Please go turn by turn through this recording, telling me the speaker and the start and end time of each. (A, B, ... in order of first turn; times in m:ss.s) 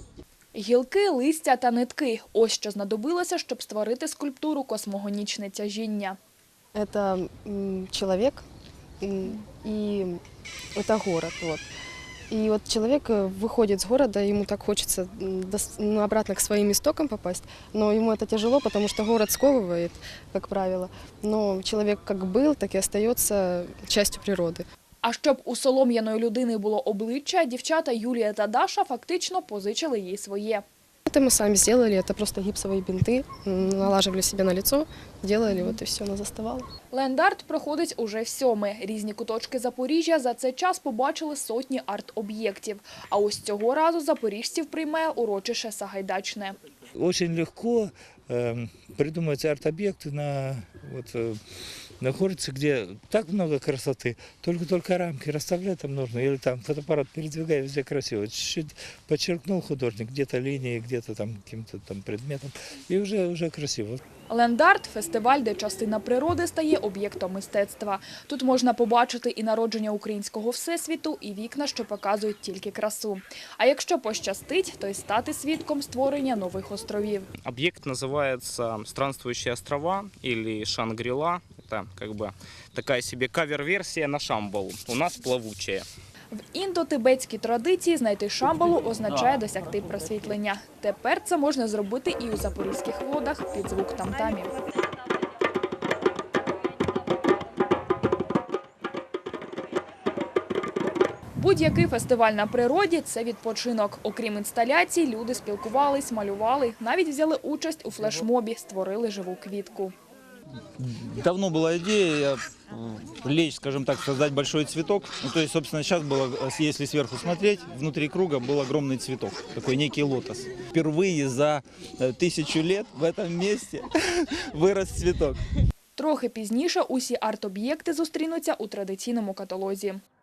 0:00.5-0:06.2 A
0:06.7-0:08.4 B
0:09.0-0:10.2 B
0:10.8-0:11.7 B
0:12.3-0:24.6 B
0:25.0-0:30.6 A
0:31.1-0:36.7 B
0:35.5-0:35.8 A
0:36.9-0:46.6 A
0:47.0-0:51.4 C
0:52.0-1:04.0 C
1:04.3-1:17.3 A
1:17.4-1:25.8 D
1:26.3-1:34.5 A
1:41.4-1:49.9 A
1:50.8-2:03.9 E
2:04.5-2:05.4 E
2:06.0-2:10.0 A